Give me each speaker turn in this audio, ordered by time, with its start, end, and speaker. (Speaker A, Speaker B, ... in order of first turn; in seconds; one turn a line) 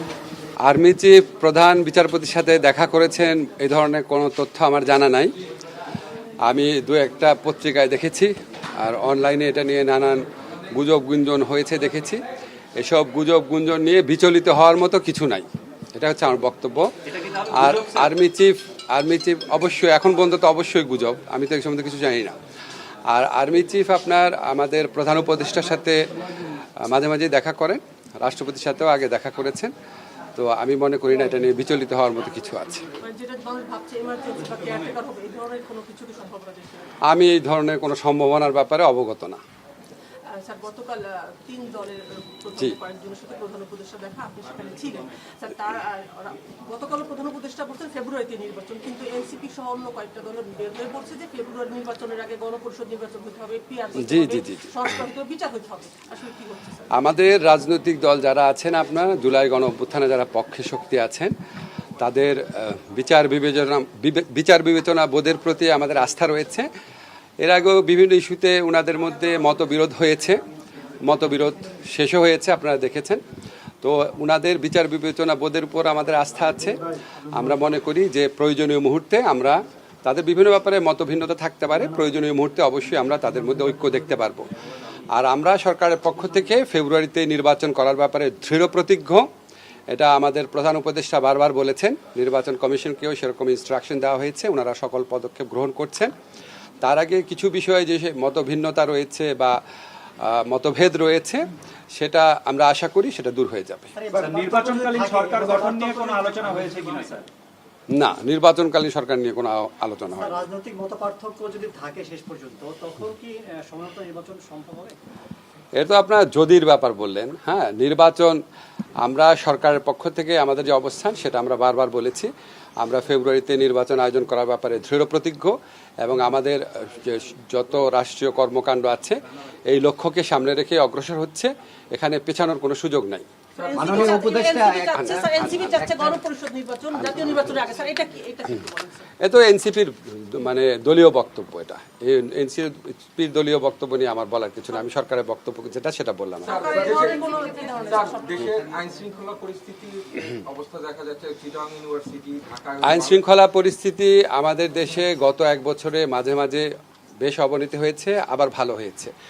Speaker A: 0.7-5.3
Speaker A: 6.4-12.2
Speaker A: 12.8-22.4
Speaker A: 23.1-29.7
Speaker A: 30.4-32.9
Speaker B: 33.0-36.9
Speaker A: 37.1-39.4
Speaker B: 40.3-56.9
Speaker A: 54.0-54.7
Speaker A: 56.9-61.3
Speaker A: 62.0-66.7
Speaker A: 67.4-70.4
Speaker A: 71.0-73.2
Speaker A: 73.8-84.5
Speaker A: 85.1-89.3
Speaker A: 89.9-96.1
Speaker A: 96.8-99.6
Speaker A: 100.2-103.9
Speaker C: 104.0-107.1
Speaker D: 104.1-107.3
Speaker A: 107.9-110.5
Speaker C: 110.1-115.0
Speaker A: 115.8-118.4
Speaker A: 119.0-133.3
Speaker B: 133.6-139.1
Speaker E: 133.7-134.2
Speaker A: 133.9-134.2
Speaker A: 134.8-135.8
Speaker A: 137.0-137.4
Speaker A: 139.2-146.7
Speaker B: 146.4-148.6
Speaker E: 146.4-153.2
Speaker A: 152.8-156.7
Speaker A: 157.2-159.1